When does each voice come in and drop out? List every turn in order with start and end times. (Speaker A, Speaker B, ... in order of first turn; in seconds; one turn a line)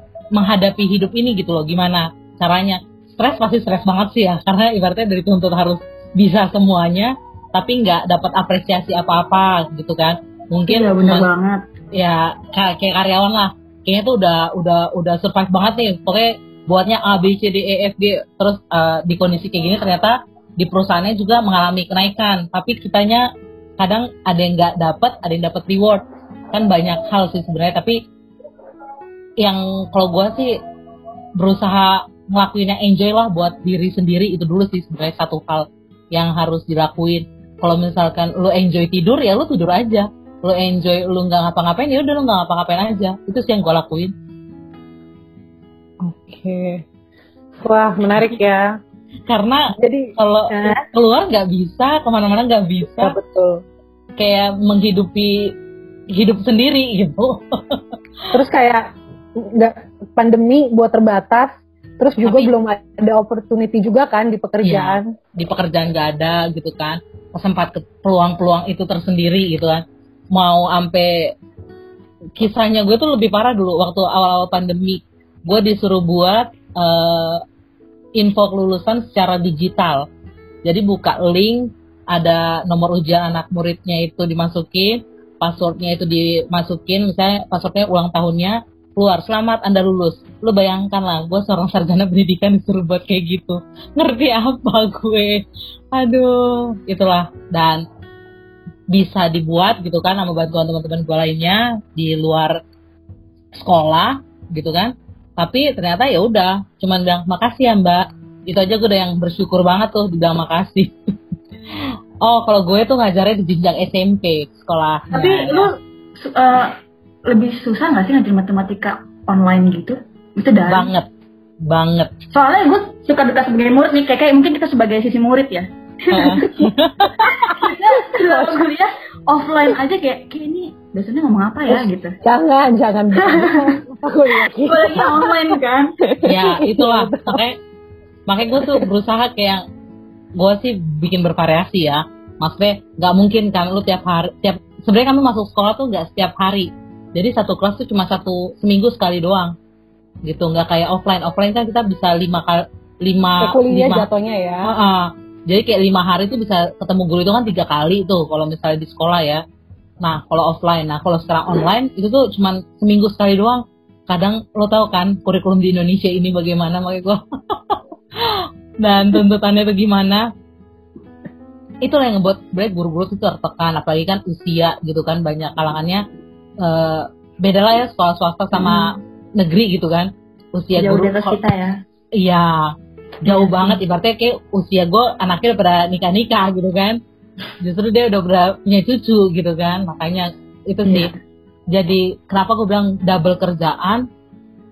Speaker A: 0.3-11.3
Speaker B: 10.7-11.6
Speaker A: 11.9-28.0
Speaker A: 29.4-30.6
Speaker A: 31.4-44.1
Speaker C: 46.0-46.8
Speaker C: 47.6-48.7
Speaker A: 49.3-53.2
Speaker C: 49.7-50.8
Speaker C: 53.0-53.6
Speaker A: 54.2-55.5
Speaker A: 56.1-57.8
Speaker C: 58.3-58.9
Speaker C: 59.4-65.1
Speaker A: 62.2-62.5
Speaker A: 64.6-71.3
Speaker A: 72.4-77.4
Speaker A: 78.2-80.1
Speaker A: 80.6-97.8
Speaker A: 98.9-102.6
Speaker A: 103.5-110.9
Speaker A: 111.8-115.7
Speaker B: 115.1-116.8
Speaker B: 117.3-120.9
Speaker A: 120.7-121.1
Speaker A: 121.7-122.1
Speaker B: 122.3-126.5
Speaker A: 126.1-127.5
Speaker B: 127.3-132.2
Speaker C: 128.1-128.6
Speaker C: 131.7-135.4
Speaker B: 133.2-133.8
Speaker B: 134.6-135.9
Speaker C: 136.1-137.4
Speaker A: 136.2-137.6
Speaker A: 138.3-139.6
Speaker A: 140.4-149.6
Speaker A: 150.2-154.1
Speaker C: 153.4-154.7
Speaker A: 154.7-159.4
Speaker A: 160.0-170.3
Speaker A: 171.8-176.0
Speaker A: 176.6-181.4
Speaker B: 180.8-181.8
Speaker A: 182.2-187.0
Speaker B: 183.3-183.7
Speaker A: 187.6-191.1
Speaker B: 190.9-191.1
Speaker A: 191.7-194.1